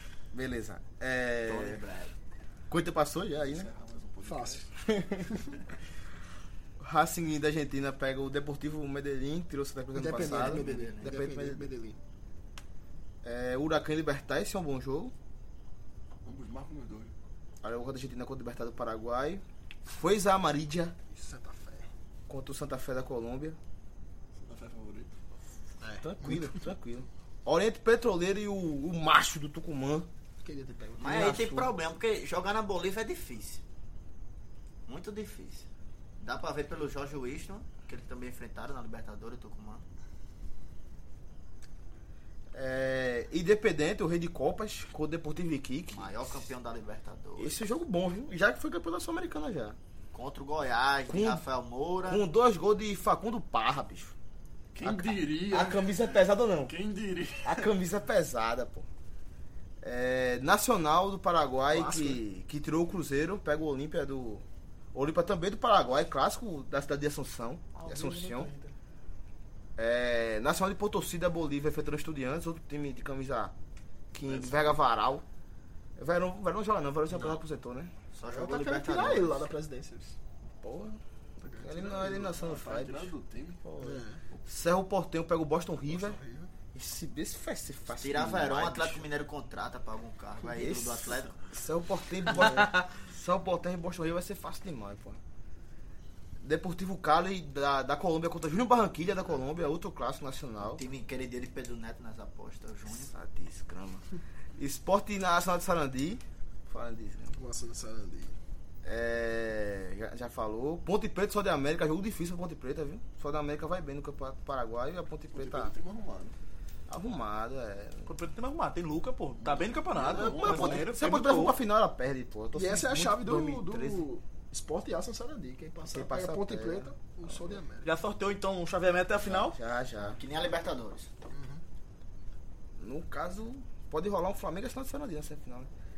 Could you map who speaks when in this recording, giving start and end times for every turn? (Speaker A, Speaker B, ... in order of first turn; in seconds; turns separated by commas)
Speaker A: 0.3-1.8, Speaker B: 1.5-2.1, Speaker A: 2.7-3.7, Speaker C: 3.5-4.7, Speaker D: 4.2-4.7, Speaker A: 4.8-5.4, Speaker A: 6.8-11.7, Speaker D: 9.9-12.0, Speaker B: 10.2-11.2, Speaker A: 13.2-15.1, Speaker C: 16.2-17.1, Speaker A: 17.6-20.9, Speaker D: 21.1-21.9, Speaker A: 22.3-23.6, Speaker C: 24.4-25.2, Speaker D: 25.8-26.7, Speaker A: 26.0-30.1, Speaker D: 30.4-31.3, Speaker B: 31.0-33.6, Speaker A: 31.0-31.7, Speaker B: 34.9-35.6, Speaker B: 36.2-39.8, Speaker A: 42.5-46.3, Speaker B: 45.9-47.6, Speaker A: 47.4-49.8, Speaker B: 50.1-52.2, Speaker A: 51.1-51.4, Speaker A: 52.1-54.1, Speaker C: 54.7-57.7, Speaker A: 54.8-56.7, Speaker A: 57.4-58.9, Speaker A: 59.8-68.5, Speaker D: 61.7-62.2, Speaker E: 67.8-68.7, Speaker A: 69.8-73.5, Speaker A: 74.1-75.2, Speaker C: 74.2-74.7, Speaker A: 76.0-77.9, Speaker B: 78.1-79.5, Speaker D: 78.3-80.1, Speaker A: 80.6-81.0, Speaker C: 81.4-83.6, Speaker A: 81.6-83.1, Speaker A: 83.6-86.2, Speaker D: 83.8-84.2, Speaker D: 85.9-86.5, Speaker A: 86.7-89.0, Speaker B: 88.0-91.4, Speaker A: 90.4-95.2, Speaker A: 96.4-100.8, Speaker B: 100.6-103.1, Speaker A: 102.9-104.0, Speaker A: 104.5-107.3, Speaker D: 107.3-108.3, Speaker A: 108.8-115.7, Speaker C: 115.3-116.3, Speaker A: 116.9-118.1, Speaker E: 118.1-121.5, Speaker C: 119.4-120.8, Speaker A: 120.0-124.0, Speaker D: 122.5-127.9, Speaker A: 125.9-127.6, Speaker E: 127.8-129.6, Speaker A: 129.2-130.2, Speaker B: 130.0-131.1, Speaker D: 131.3-131.6, Speaker A: 132.8-135.7